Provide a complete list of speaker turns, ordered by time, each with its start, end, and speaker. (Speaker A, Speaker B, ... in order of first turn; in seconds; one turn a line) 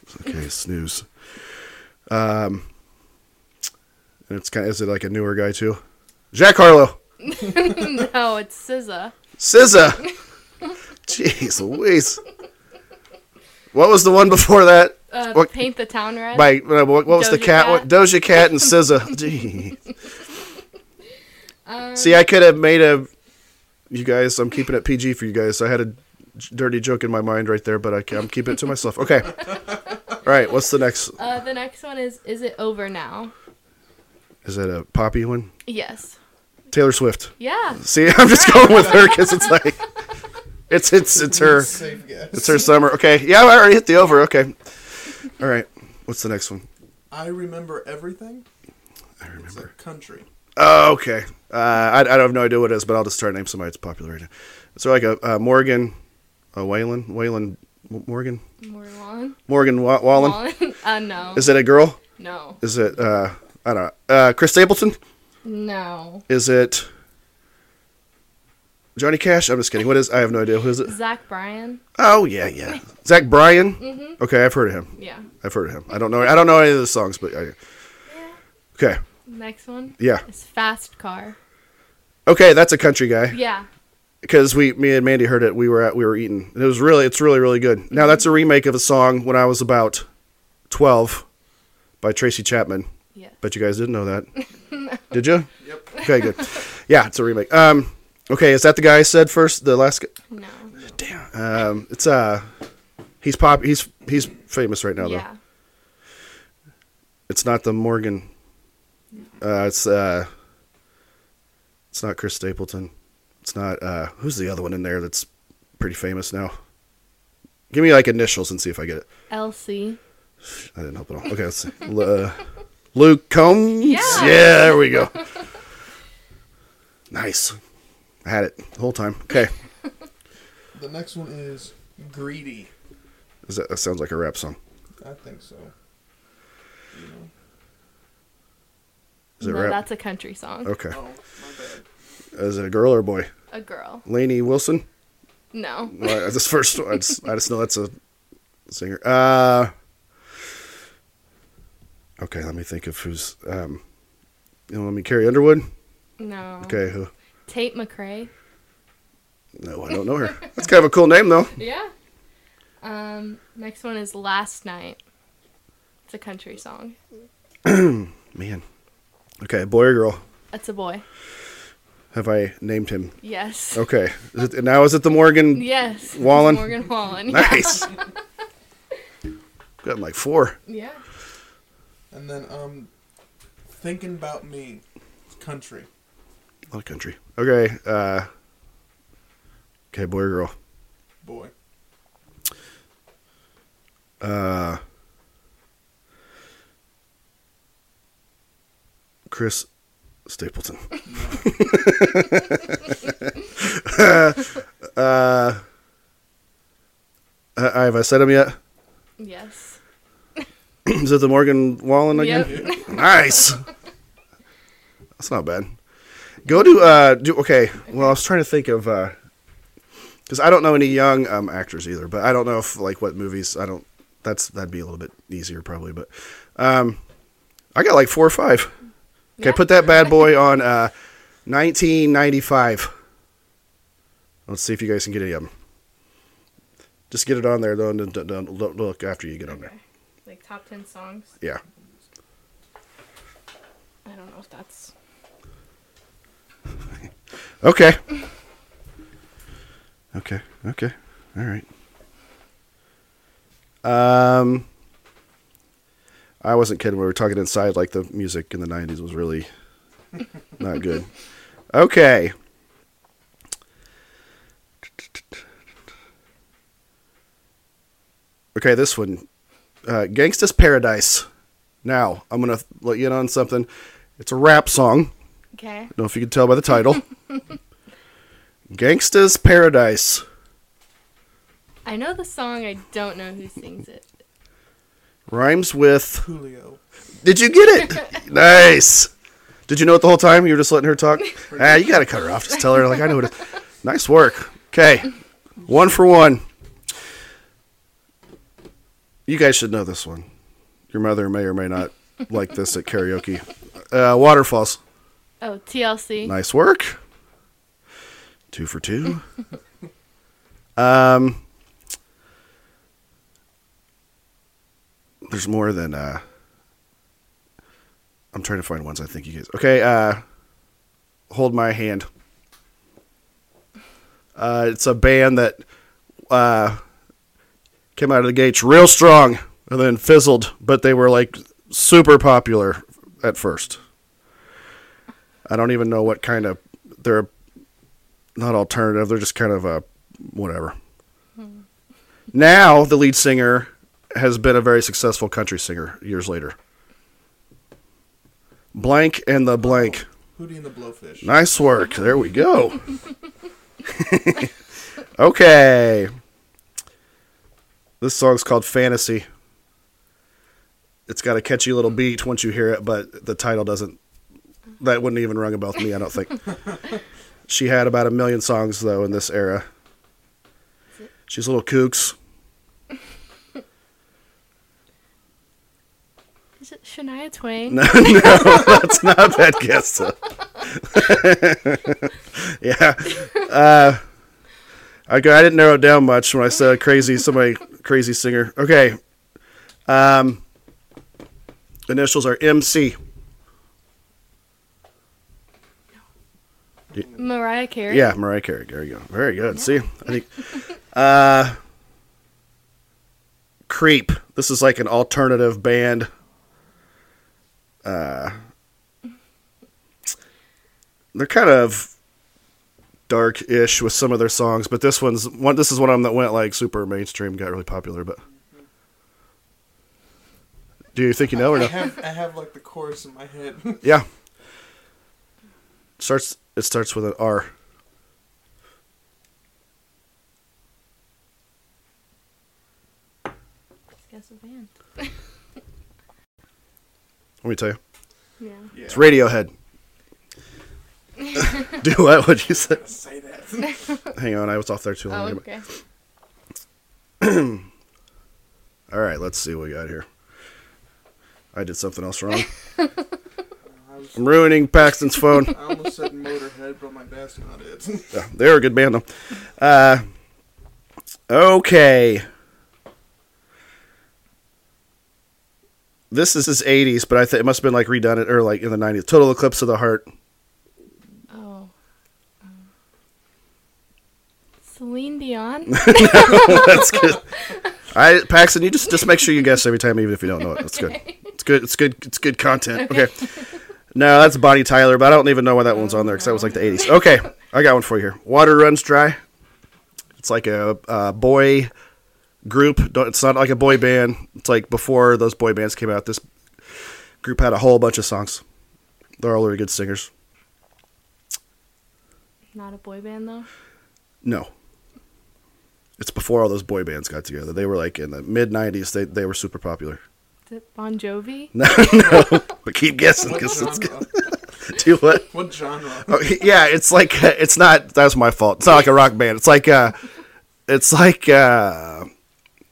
Speaker A: 0.1-1.0
Speaker A: 2.1-2.6
Speaker A: 4.3-5.8
Speaker A: 6.3-7.0
Speaker B: 7.2-9.1
Speaker A: 9.4-10.1
Speaker A: 11.1-12.2
Speaker A: 13.7-15.5
Speaker B: 15.1-17.9
Speaker A: 16.3-19.8
Speaker B: 21.6-22.3
Speaker A: 22.0-23.1
Speaker A: 23.9-29.5
Speaker A: 30.2-31.1
Speaker B: 31.2-33.3
Speaker A: 34.4-35.5
Speaker B: 35.6-36.1
Speaker A: 36.7-39.8
Speaker B: 37.4-39.5
Speaker A: 40.7-41.7
Speaker C: 41.1-42.7
Speaker A: 42.3-44.5
Speaker A: 45.4-46.6
Speaker C: 47.1-48.4
Speaker A: 49.2-49.6
Speaker C: 49.4-50.2
Speaker A: 50.6-55.9
Speaker A: 56.5-58.4
Speaker B: 58.6-59.4
Speaker A: 59.5-60.4
Speaker B: 60.1-61.5
Speaker A: 61.3-62.0
Speaker B: 62.2-62.6
Speaker A: 62.6-65.0
Speaker B: 65.4-66.2
Speaker A: 66.3-66.9
Speaker A: 69.0-70.9
Speaker B: 70.8-71.8
Speaker A: 72.0-74.9
Speaker B: 73.8-74.2
Speaker B: 75.0-75.3
Speaker A: 75.4-77.5
Speaker B: 78.1-78.4
Speaker B: 79.3-81.3
Speaker A: 82.2-83.4
Speaker B: 83.3-83.7
Speaker A: 84.2-90.0
Speaker A: 90.7-91.2
Speaker A: 92.0-92.9
Speaker A: 93.4-94.3
Speaker A: 95.1-100.1
Speaker C: 95.6-96.0
Speaker B: 100.3-100.7
Speaker A: 101.0-102.5
Speaker A: 103.2-105.2
Speaker B: 105.0-105.3
Speaker A: 107.3-108.3
Speaker A: 109.4-110.3
Speaker A: 111.9-112.9
Speaker A: 113.4-115.2
Speaker A: 115.8-116.5
Speaker A: 117.7-119.0
Speaker B: 119.3-120.0
Speaker A: 120.7-122.4
Speaker A: 122.9-125.1
Speaker B: 123.8-125.2
Speaker C: 124.1-124.4
Speaker A: 127.1-127.6
Speaker A: 128.2-129.5
Speaker C: 130.7-132.7
Speaker A: 133.4-134.6
Speaker C: 135.0-135.7
Speaker C: 136.9-137.3
Speaker A: 139.4-139.8
Speaker B: 139.4-140.7
Speaker A: 140.6-140.9
Speaker C: 140.9-141.8
Speaker A: 142.3-143.3
Speaker B: 143.5-144.0
Speaker A: 144.0-144.8
Speaker B: 145.5-146.2
Speaker A: 145.9-147.9
Speaker A: 148.7-149.7
Speaker A: 152.2-153.8
Speaker A: 154.7-155.7
Speaker B: 156.2-156.8
Speaker A: 156.6-157.1
Speaker B: 157.5-158.3
Speaker A: 159.6-161.5
Speaker B: 161.6-161.9
Speaker B: 162.8-165.0
Speaker B: 166.1-167.0
Speaker A: 167.6-168.6
Speaker A: 169.4-170.2
Speaker B: 170.5-171.0
Speaker A: 172.1-173.1
Speaker B: 173.2-173.8
Speaker A: 173.7-176.7
Speaker B: 175.5-178.0
Speaker A: 177.3-177.9
Speaker A: 179.8-180.5
Speaker B: 180.7-181.0
Speaker C: 182.1-182.9
Speaker C: 183.7-185.9
Speaker A: 186.7-188.3
Speaker A: 189.9-190.5
Speaker C: 191.2-191.5
Speaker A: 194.2-194.8
Speaker A: 199.3-199.7
Speaker A: 200.3-202.8
Speaker C: 201.1-201.5
Speaker A: 203.6-205.6
Speaker A: 207.6-208.6
Speaker B: 209.2-209.8
Speaker A: 210.8-213.6
Speaker B: 212.1-213.1
Speaker C: 212.4-212.8
Speaker A: 215.2-215.7
Speaker A: 216.4-219.1
Speaker A: 220.3-227.0
Speaker A: 227.7-228.7
Speaker B: 229.4-230.2
Speaker A: 229.4-230.9
Speaker A: 231.4-232.9
Speaker A: 234.5-235.5
Speaker A: 237.1-239.7
Speaker B: 239.5-241.3
Speaker B: 244.0-244.9
Speaker A: 247.6-248.0
Speaker A: 250.1-251.6
Speaker A: 253.8-254.7
Speaker A: 256.4-259.5
Speaker A: 260.6-261.1
Speaker A: 261.7-262.3
Speaker A: 268.5-269.2
Speaker A: 269.8-271.2
Speaker A: 271.8-273.7
Speaker A: 274.2-275.1
Speaker B: 275.5-275.9
Speaker A: 275.9-277.0
Speaker A: 278.7-280.2
Speaker B: 281.8-284.0
Speaker A: 285.3-286.2
Speaker C: 286.2-286.8
Speaker A: 287.2-289.1
Speaker A: 289.7-295.1
Speaker C: 291.5-292.0
Speaker A: 295.7-296.4
Speaker A: 299.3-300.2
Speaker A: 300.9-304.8
Speaker B: 305.4-306.3
Speaker A: 306.2-307.0
Speaker A: 308.5-309.2
Speaker A: 310.8-311.4
Speaker A: 315.3-316.2
Speaker A: 318.3-320.2
Speaker A: 321.3-322.1
Speaker A: 324.4-325.6
Speaker A: 326.3-326.8
Speaker A: 327.9-333.8
Speaker A: 335.4-337.3
Speaker A: 338.4-340.8
Speaker A: 342.3-346.5
Speaker A: 348.7-350.0
Speaker C: 350.3-351.3
Speaker A: 351.2-352.8
Speaker A: 353.9-354.5
Speaker A: 355.2-356.1
Speaker A: 358.0-359.2
Speaker A: 361.1-364.0
Speaker A: 364.8-366.4
Speaker A: 367.5-369.6
Speaker A: 371.3-372.1
Speaker B: 376.6-378.8
Speaker A: 377.7-380.1
Speaker A: 380.7-384.0
Speaker A: 385.1-389.0
Speaker A: 389.9-390.4
Speaker A: 391.9-392.9
Speaker B: 397.1-398.1
Speaker A: 397.9-400.3
Speaker A: 400.9-401.6
Speaker A: 403.7-406.1
Speaker A: 407.8-408.4
Speaker A: 411.1-411.9
Speaker A: 413.1-418.2
Speaker A: 420.9-421.9
Speaker C: 421.3-423.9
Speaker A: 426.0-427.5
Speaker B: 434.1-435.1
Speaker A: 437.4-437.8
Speaker B: 438.4-438.7
Speaker C: 438.7-439.1
Speaker A: 438.9-439.5
Speaker A: 441.4-442.8
Speaker C: 442.4-443.9
Speaker A: 444.1-445.4
Speaker B: 445.1-445.6
Speaker A: 447.2-447.6
Speaker A: 448.9-450.1
Speaker A: 451.5-452.5
Speaker C: 453.6-454.4
Speaker A: 454.1-455.5
Speaker C: 455.5-458.1
Speaker A: 458.1-460.0
Speaker A: 461.3-462.2
Speaker A: 466.1-470.1
Speaker B: 471.3-471.7
Speaker B: 474.7-477.1
Speaker A: 475.7-477.2
Speaker A: 477.9-483.1
Speaker B: 480.7-481.1
Speaker A: 483.9-489.2
Speaker B: 485.7-486.6
Speaker A: 490.2-491.7
Speaker A: 492.4-496.2
Speaker A: 497.2-498.4
Speaker A: 499.2-500.1
Speaker B: 502.5-503.5
Speaker A: 504.2-504.5
Speaker A: 506.0-510.0
Speaker B: 510.5-511.5
Speaker A: 511.5-514.0
Speaker C: 511.9-512.2
Speaker C: 513.2-514.3
Speaker A: 514.6-515.3
Speaker C: 515.1-516.2
Speaker A: 516.1-520.0
Speaker A: 520.7-522.1